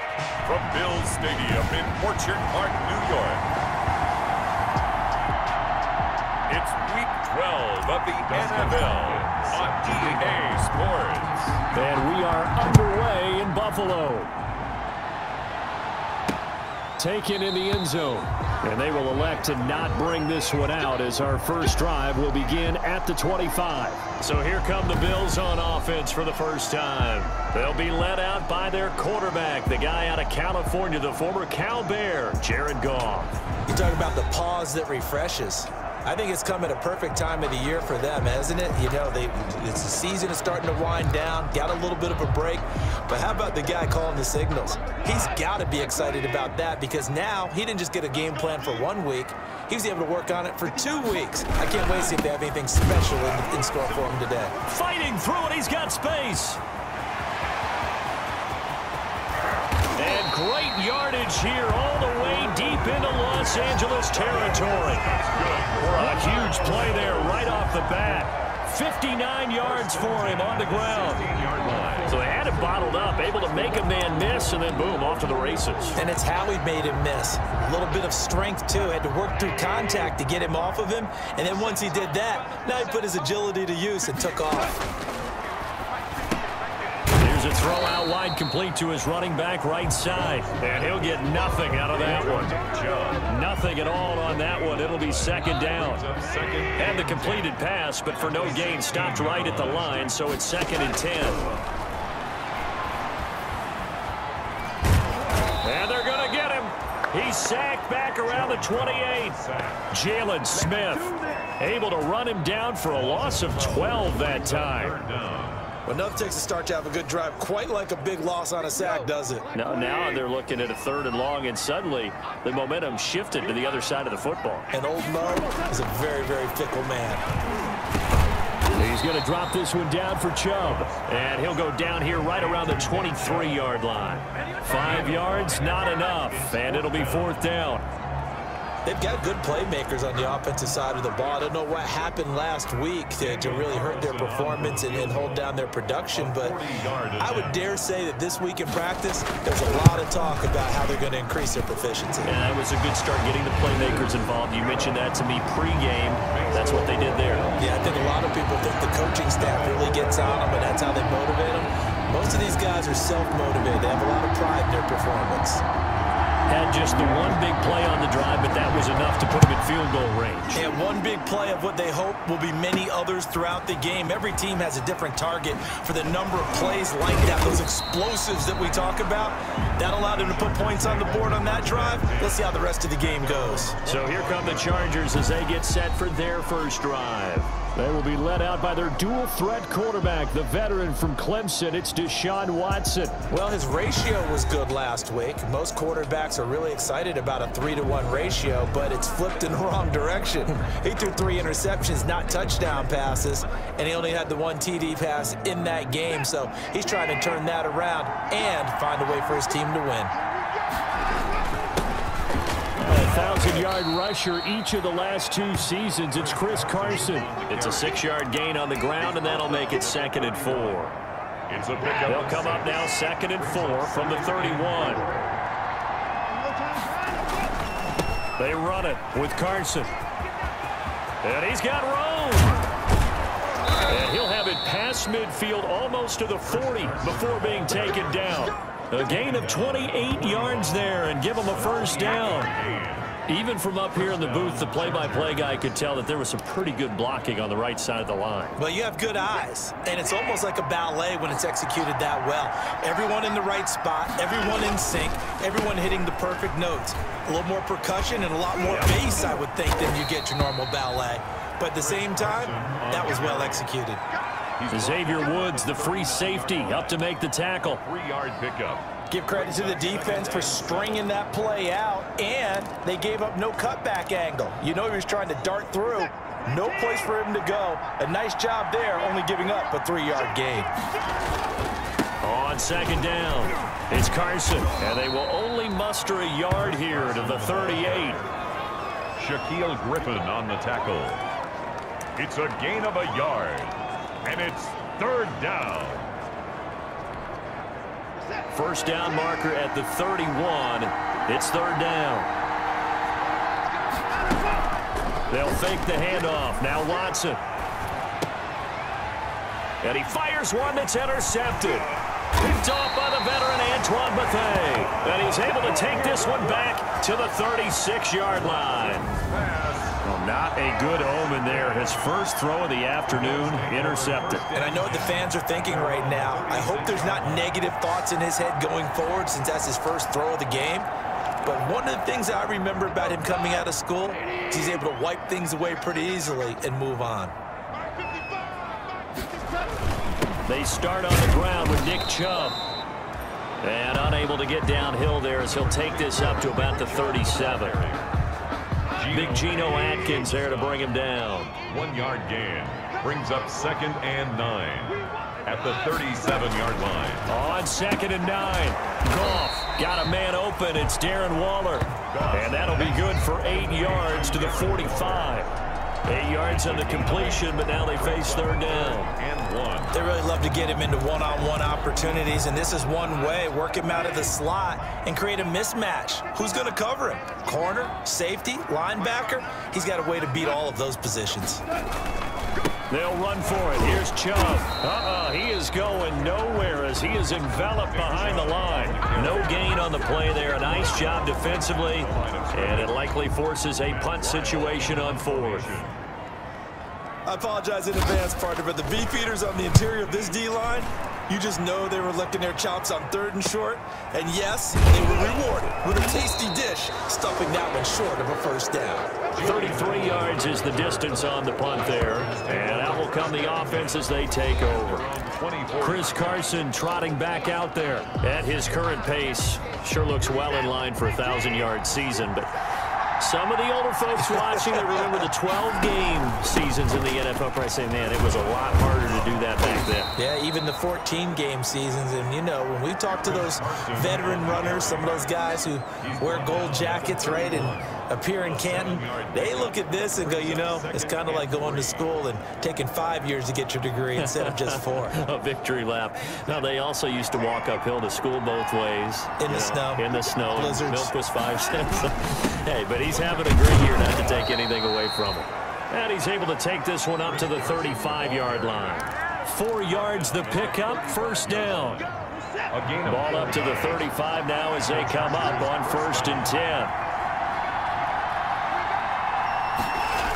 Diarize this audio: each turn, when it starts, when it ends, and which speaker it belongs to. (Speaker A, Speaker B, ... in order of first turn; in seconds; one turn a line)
Speaker A: 0.4-3.5
Speaker A: 6.5-11.6
Speaker B: 8.3-9.3
Speaker B: 11.7-14.3
Speaker B: 17.0-33.3
Speaker C: 33.7-54.5
Speaker B: 54.6-56.6
Speaker B: 60.0-65.1
Speaker A: 64.3-67.7
Speaker B: 65.8-71.3
Speaker A: 69.6-72.2
Speaker B: 72.1-76.0
Speaker C: 76.0-84.8
Speaker B: 87.2-92.6
Speaker A: 91.7-93.3
Speaker B: 93.2-96.0
Speaker A: 94.8-97.5
Speaker B: 96.8-101.5
Speaker A: 98.2-100.1
Speaker B: 105.6-109.4
Speaker A: 108.3-109.9
Speaker B: 109.9-115.0
Speaker A: 112.9-115.7
Speaker C: 115.9-119.5
Speaker B: 119.5-124.7
Speaker C: 124.7-127.2
Speaker B: 128.8-137.9
Speaker A: 130.6-133.7
Speaker A: 134.7-137.4
Speaker C: 138.8-146.6
Speaker A: 143.2-145.5
Speaker A: 146.1-147.6
Speaker C: 147.2-152.3
Speaker B: 152.2-157.5
Speaker A: 156.3-158.3
Speaker C: 157.6-165.6
Speaker B: 166.5-170.7
Speaker C: 170.5-183.8
Speaker A: 180.1-185.2
Speaker B: 183.9-193.2
Speaker C: 193.3-210.2
Speaker B: 212.8-220.9
Speaker A: 216.1-218.1
Speaker A: 219.0-220.8
Speaker A: 221.5-225.2
Speaker B: 222.1-225.1
Speaker B: 228.4-229.9
Speaker B: 231.2-232.6
Speaker B: 233.9-242.5
Speaker A: 236.4-238.5
Speaker A: 239.0-243.2
Speaker B: 243.3-248.6
Speaker A: 243.9-245.6
Speaker C: 248.6-264.0
Speaker A: 261.8-263.7
Speaker A: 264.6-267.0
Speaker B: 264.7-267.8
Speaker A: 267.7-271.1
Speaker C: 269.1-280.7
Speaker B: 282.2-288.2
Speaker A: 286.7-288.3
Speaker A: 289.2-291.2
Speaker A: 292.2-296.1
Speaker B: 298.5-302.3
Speaker B: 305.3-307.4
Speaker B: 309.8-319.1
Speaker A: 315.2-316.2
Speaker A: 319.2-320.0
Speaker B: 320.0-324.4
Speaker A: 321.5-321.9
Speaker A: 323.1-327.7
Speaker C: 324.5-330.9
Speaker C: 331.4-337.4
Speaker B: 340.5-342.6
Speaker B: 343.6-347.8
Speaker A: 345.4-348.1
Speaker A: 349.0-350.9
Speaker B: 349.1-351.5
Speaker A: 351.6-357.3
Speaker B: 357.3-365.5
Speaker A: 362.1-365.3
Speaker B: 366.1-369.1
Speaker A: 366.4-370.0
Speaker C: 369.9-381.6
Speaker B: 382.9-395.7
Speaker A: 387.9-389.9
Speaker A: 390.7-393.1
Speaker A: 393.8-396.0
Speaker C: 397.3-409.1
Speaker A: 409.3-416.5
Speaker B: 409.4-415.1
Speaker B: 415.8-422.5
Speaker B: 423.2-430.1
Speaker C: 424.2-425.3
Speaker C: 430.2-445.2
Speaker A: 433.1-435.4
Speaker A: 436.0-442.1
Speaker B: 444.2-462.1
Speaker C: 449.4-451.1
Speaker A: 457.2-459.1
Speaker A: 460.0-462.1
Speaker A: 462.7-464.1
Speaker B: 463.1-466.9
Speaker A: 464.8-466.6